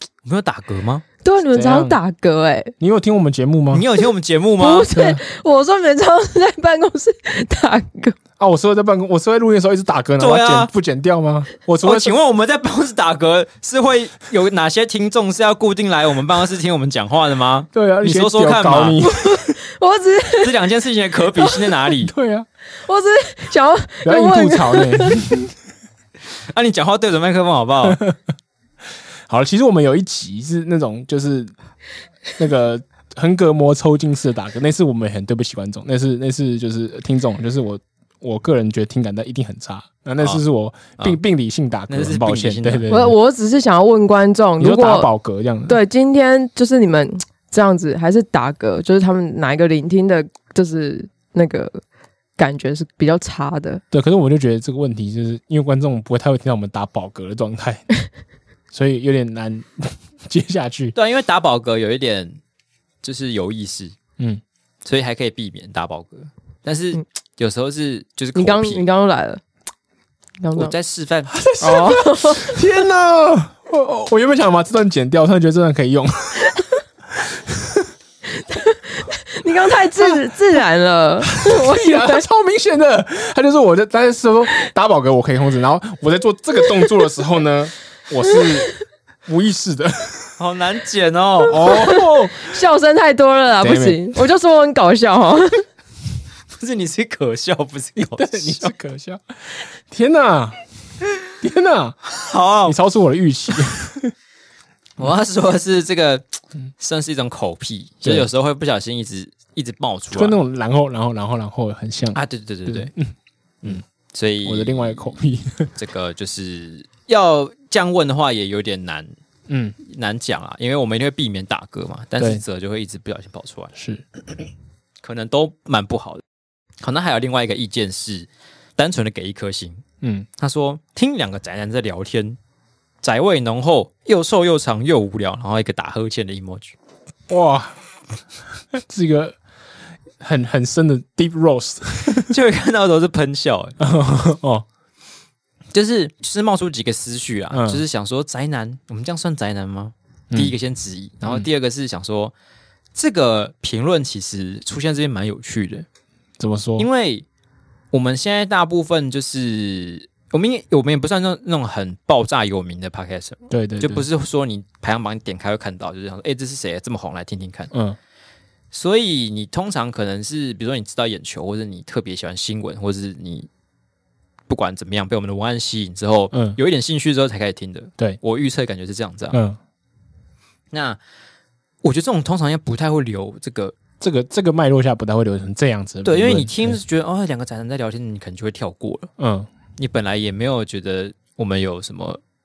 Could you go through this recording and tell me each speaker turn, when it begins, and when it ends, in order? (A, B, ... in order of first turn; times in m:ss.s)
0:00.2-0:01.0 A
0:01.2-0:02.7 B
0:01.5-0:02.0 C
0:02.8-0:03.9 C
0:03.7-0:04.9 A
0:04.6-0:08.2 B
0:04.9-0:05.2 C
0:08.4-0:12.1 C
0:10.2-0:10.7 A
0:11.8-0:19.1 A
0:17.7-0:19.5 C
0:19.0-0:20.6 B
0:20.4-0:22.1 A
0:21.4-0:21.7 B
0:22.0-0:22.5 C
0:22.8-0:25.2 B
0:24.0-0:25.5 C
0:26.5-0:28.0 A
0:27.9-0:28.2 C
0:29.3-0:31.5 C
0:32.4-0:43.2 C
0:41.9-0:42.9 A
0:42.9-0:45.1 B
0:44.6-0:45.8 C
0:45.7-0:51.8 B
0:52.4-0:53.8 B
0:53.9-0:57.9 C
0:58.7-1:00.9 C
1:01.0-1:02.4 A
1:03.0-1:04.0 A
1:04.8-1:08.8 A
1:08.4-1:09.4 B
1:10.4-1:10.7 B
1:10.6-1:11.3 A
1:11.3-1:17.9 C
1:11.6-1:12.7 B
1:18.3-1:22.2 B
1:21.4-1:28.7 C
1:29.3-1:30.3 C
1:30.4-1:31.8 A
1:31.5-1:32.5 C
1:31.5-1:35.6 B
1:33.6-1:34.1 C
1:36.6-1:38.7 A
1:38.0-1:39.2 C
1:39.9-1:40.6 C
1:41.4-1:42.0 C
1:42.1-1:42.8 A
1:42.7-1:44.1 C
1:45.0-1:50.4 A
1:50.1-1:53.1 C
1:52.1-1:52.9 A
1:53.6-1:55.1 A
1:54.4-1:55.7 C
1:55.8-1:59.1 A
1:59.5-1:59.8 C
1:59.8-2:03.7 A
2:03.8-2:04.0 C
2:05.0-2:06.2 A
2:06.8-2:09.8 A
2:10.0-2:10.3 C
2:10.4-2:12.4 A
2:13.0-2:16.8 A
2:17.3-2:17.7 C
2:18.7-2:19.4 C
2:20.2-2:22.3 C
2:22.3-2:23.8 A
2:23.8-2:24.7 C
2:25.7-2:32.3 A
2:27.5-2:27.8 C
2:32.9-2:35.9 A
2:36.4-2:36.9 C
2:36.8-2:37.3 A
2:37.9-2:47.7 A
2:43.5-2:44.1 C
2:47.7-2:48.0 C
2:48.7-2:53.5 A
2:54.5-2:59.4 A
2:56.3-2:56.6 C
2:59.3-2:59.6 C
3:00.7-3:01.0 A
3:01.8-3:03.8 A
3:04.0-3:06.8 C
3:06.0-3:09.1 A
3:09.2-3:09.5 C
3:09.8-3:12.2 A